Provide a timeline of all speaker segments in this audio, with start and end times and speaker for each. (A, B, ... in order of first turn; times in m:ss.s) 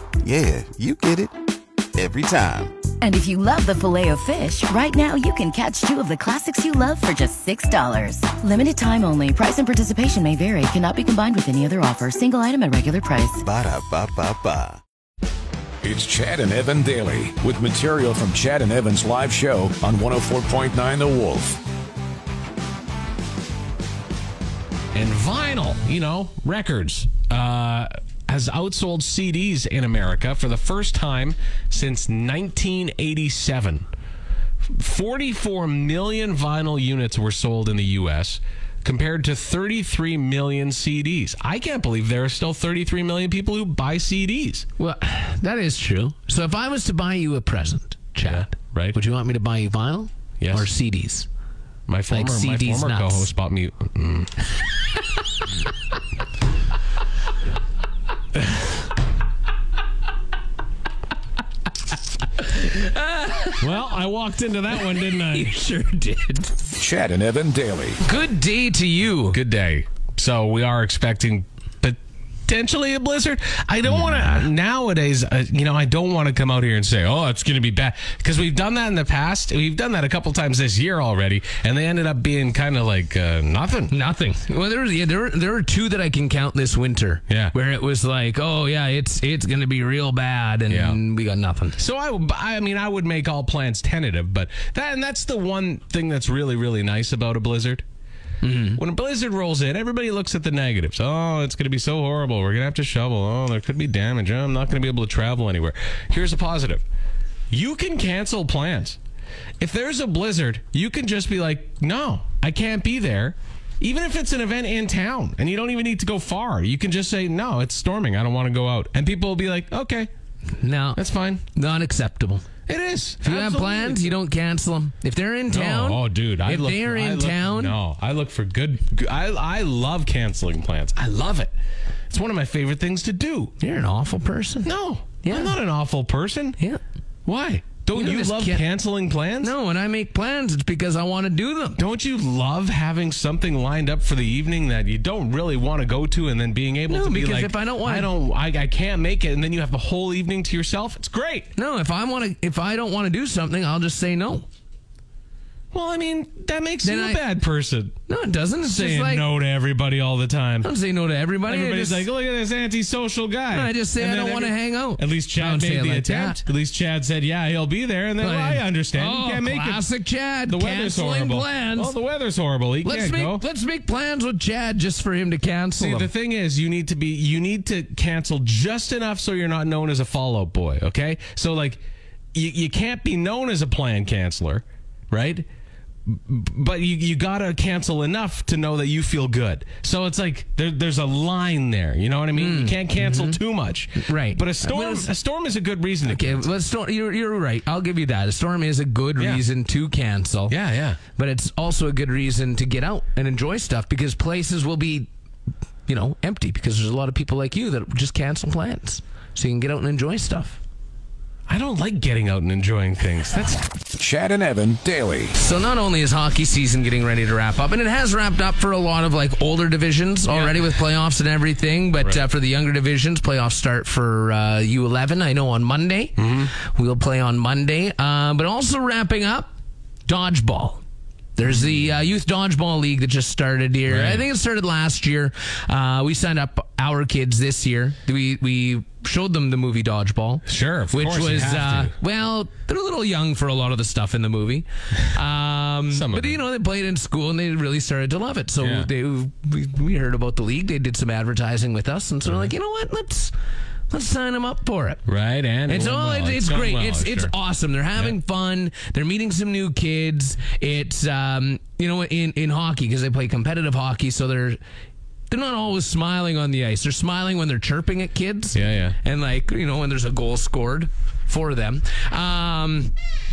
0:00.2-0:01.3 A
0:01.9-0:02.9 A
0:03.0-0:13.4 B
0:13.4-0:14.8 A
0:15.8-0:21.6 C
0:24.9-0:33.9 D
0:34.6-0:44.6 D
0:44.8-0:51.3 E
0:48.2-0:49.0 D
0:50.4-0:50.7 D
0:51.9-0:54.4 D
0:52.1-0:53.3 E
1:02.4-1:03.6 E
1:03.6-1:05.5 D
1:05.0-1:06.5 E
1:06.8-1:08.0 C
1:08.0-1:09.4 E
1:09.3-1:23.9 D
1:23.9-1:31.8 E
1:27.3-1:27.5 D
1:30.7-1:31.0 D
1:31.8-1:37.8 D
1:38.4-1:38.8 E
1:38.7-1:46.8 D
1:47.5-1:49.0 D
1:49.6-2:00.1 D
2:00.6-2:01.0 E
2:00.9-2:01.4 D
2:01.5-2:02.5 E
2:02.7-2:04.1 D
2:03.2-2:07.8 E
2:05.5-2:11.5 D
2:12.1-2:13.5 D
2:13.6-2:14.7 E
2:14.6-2:16.6 D
2:15.2-2:15.5 E
2:17.2-2:19.5 D
2:17.9-2:18.6 E
2:19.4-2:21.8 E
2:21.8-2:31.5 D
2:26.9-2:28.1 E
2:31.5-2:34.5 E
2:35.7-2:37.9 D
2:36.8-2:37.2 E
2:38.1-2:39.3 E
2:38.6-2:40.7 D
2:40.6-2:42.1 E
2:41.5-2:49.8 D
2:43.5-2:46.4 E
2:48.2-2:51.9 E
2:50.5-2:53.4 D
2:52.8-2:56.1 E
2:55.8-3:01.8 D
3:02.3-3:05.4 D
3:06.1-3:16.4 D
3:12.3-3:13.4 E
3:14.0-3:15.1 E
3:16.1-3:20.6 E
3:19.2-3:19.4 D
3:20.5-3:21.0 D
3:21.1-3:25.1 E
3:25.9-3:30.6 E
3:31.5-3:33.7 D
3:33.9-3:35.3 C
3:35.3-3:49.5 E
3:40.3-3:40.6 D
3:46.2-3:46.5 D
3:50.0-3:50.8 E
3:51.4-4:13.3 E
3:53.9-3:54.2 D
4:00.4-4:01.9 D
4:05.9-4:06.4 D
4:08.6-4:08.9 D
4:12.2-4:12.5 D
4:13.9-4:15.0 E
4:15.0-4:17.3 D
4:15.7-4:24.6 E
4:25.3-4:32.9 E
4:28.5-4:29.0 D